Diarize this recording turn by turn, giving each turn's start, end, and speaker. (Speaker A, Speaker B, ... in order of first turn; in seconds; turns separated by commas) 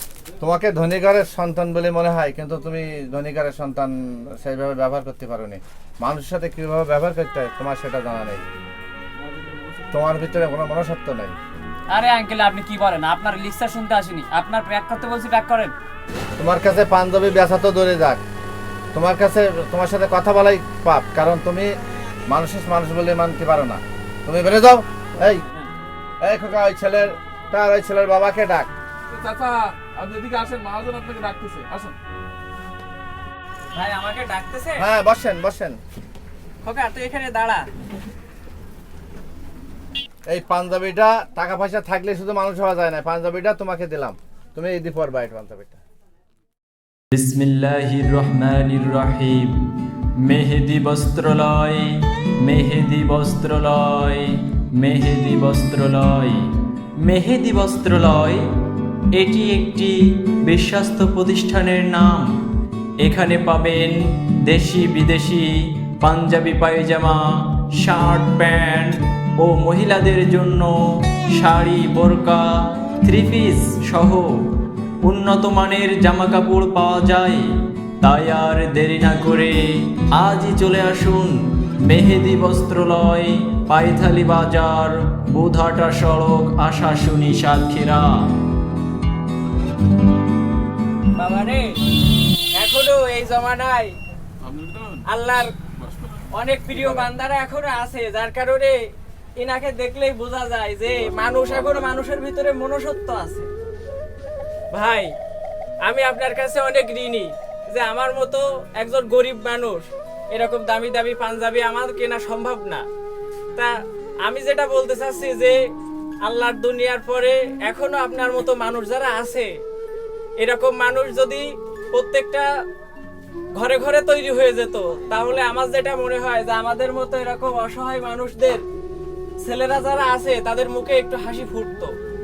Speaker A: 0.4-8.4, Speaker A: 9.9-11.4, Speaker B: 11.9-15.7, Speaker A: 16.4-18.2, Speaker A: 18.9-25.4, Speaker A: 26.2-28.7, Speaker C: 29.1-31.9, Speaker D: 33.7-34.9, Speaker A: 34.8-35.8, Speaker D: 36.6-37.7, Speaker A: 40.3-45.8, Speaker E: 47.1-49.5, Speaker E: 50.2-51.9, Speaker E: 52.4-56.4, Speaker E: 57.0-58.4, Speaker E: 59.1-59.9, Speaker E: 60.5-62.3, Speaker E: 63.0-70.7, Speaker E: 71.4-72.5, Speaker E: 73.0-74.3, Speaker E: 75.0-77.5, Speaker E: 78.0-88.2, Speaker D: 91.2-91.7, Speaker D: 92.5-93.9, Speaker C: 94.6-94.9, Speaker D: 95.1-95.5, Speaker D: 96.3-98.8, Speaker D: 99.4-103.5, Speaker D: 104.7-105.1, Speaker D: 105.8-112.8, Speaker D: 114.2-115.6, Speaker D: 116.2-119.5, Speaker D: 120.4-122.5, Speaker D: 123.5-128.6, Speaker D: 129.4-131.9